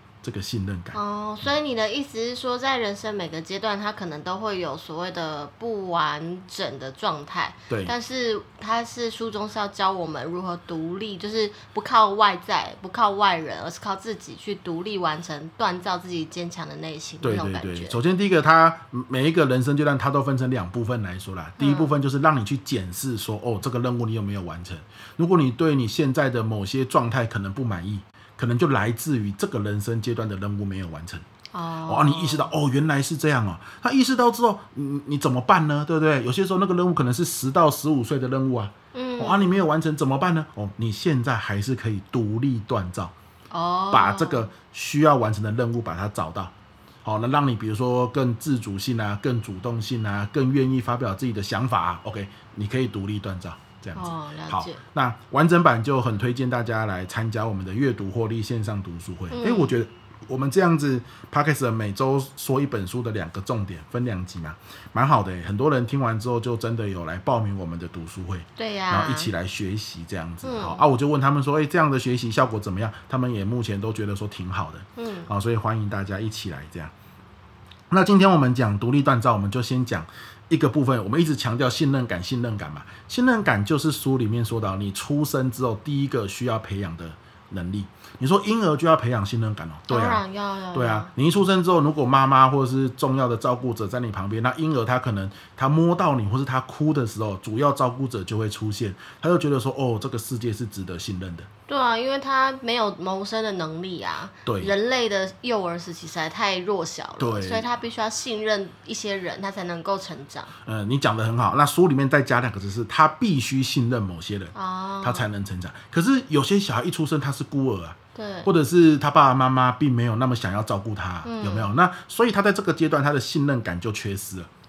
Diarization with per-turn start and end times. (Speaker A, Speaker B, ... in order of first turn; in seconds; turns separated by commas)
Speaker A: 0.2-1.0, Speaker B: 0.9-18.0, Speaker A: 7.7-7.9, Speaker A: 17.2-31.2, Speaker B: 21.6-21.9, Speaker B: 31.5-32.5, Speaker A: 31.9-43.1, Speaker B: 38.9-39.5, Speaker B: 43.5-44.5, Speaker A: 43.9-46.5, Speaker A: 47.0-76.9, Speaker B: 53.9-54.8, Speaker B: 59.3-59.8, Speaker B: 68.5-69.3, Speaker B: 70.4-70.8, Speaker B: 75.0-75.3, Speaker A: 77.9-90.2, Speaker B: 89.9-91.1, Speaker A: 90.7-101.5, Speaker B: 101.7-110.5, Speaker A: 104.5-104.7, Speaker A: 107.2-107.7, Speaker A: 110.6-124.5, Speaker B: 114.5-115.3, Speaker B: 118.1-118.5, Speaker B: 121.2-121.8